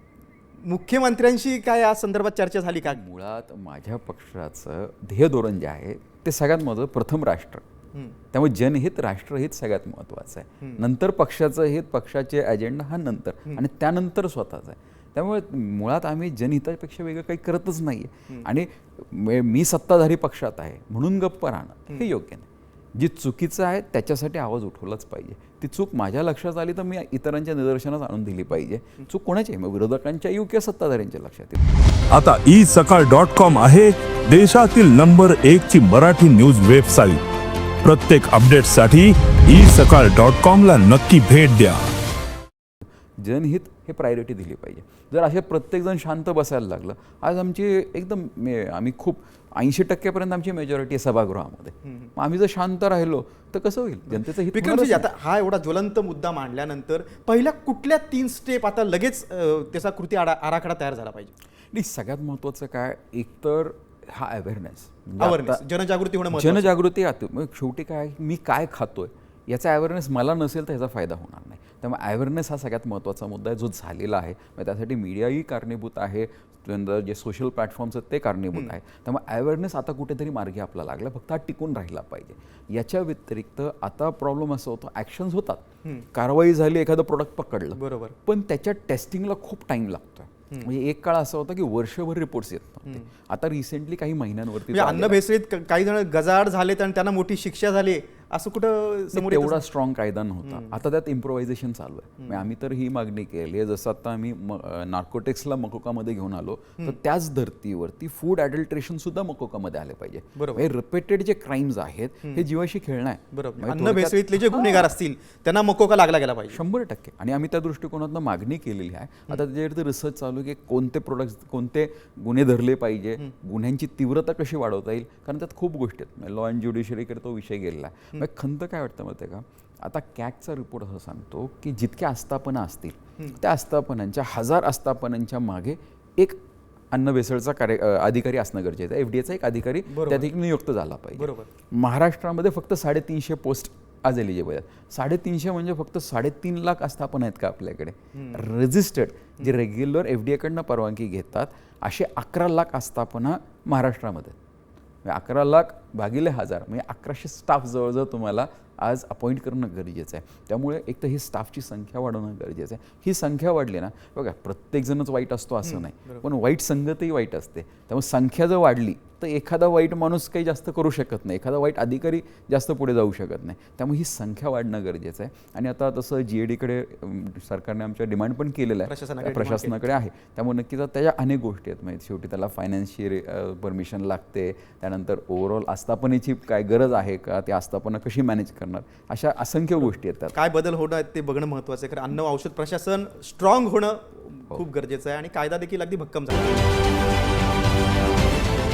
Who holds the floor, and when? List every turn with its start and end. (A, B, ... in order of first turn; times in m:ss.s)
0:00.6-0:03.0 A
0:02.8-0:07.6 B
0:08.3-0:31.7 B
0:32.1-0:37.2 C
0:37.8-0:41.9 C
0:43.2-0:55.1 B
0:51.8-0:52.1 A
0:54.1-1:01.3 A
1:01.7-1:05.6 B
1:05.2-1:06.7 A
1:06.3-1:25.6 B
1:26.1-1:35.2 B
1:27.8-1:28.2 A
1:34.7-1:39.6 A
1:39.1-1:54.9 B
1:40.4-1:40.7 A
1:42.2-1:42.5 A
1:50.4-1:50.6 A
1:53.3-1:56.6 A
1:56.5-2:16.4 B
2:16.9-2:34.4 B
2:19.9-2:20.3 A
2:21.2-2:21.5 A
2:28.1-2:28.5 A
2:35.0-3:10.4 B
2:45.6-2:46.2 A
2:58.9-2:59.8 A
3:09.8-3:16.7 A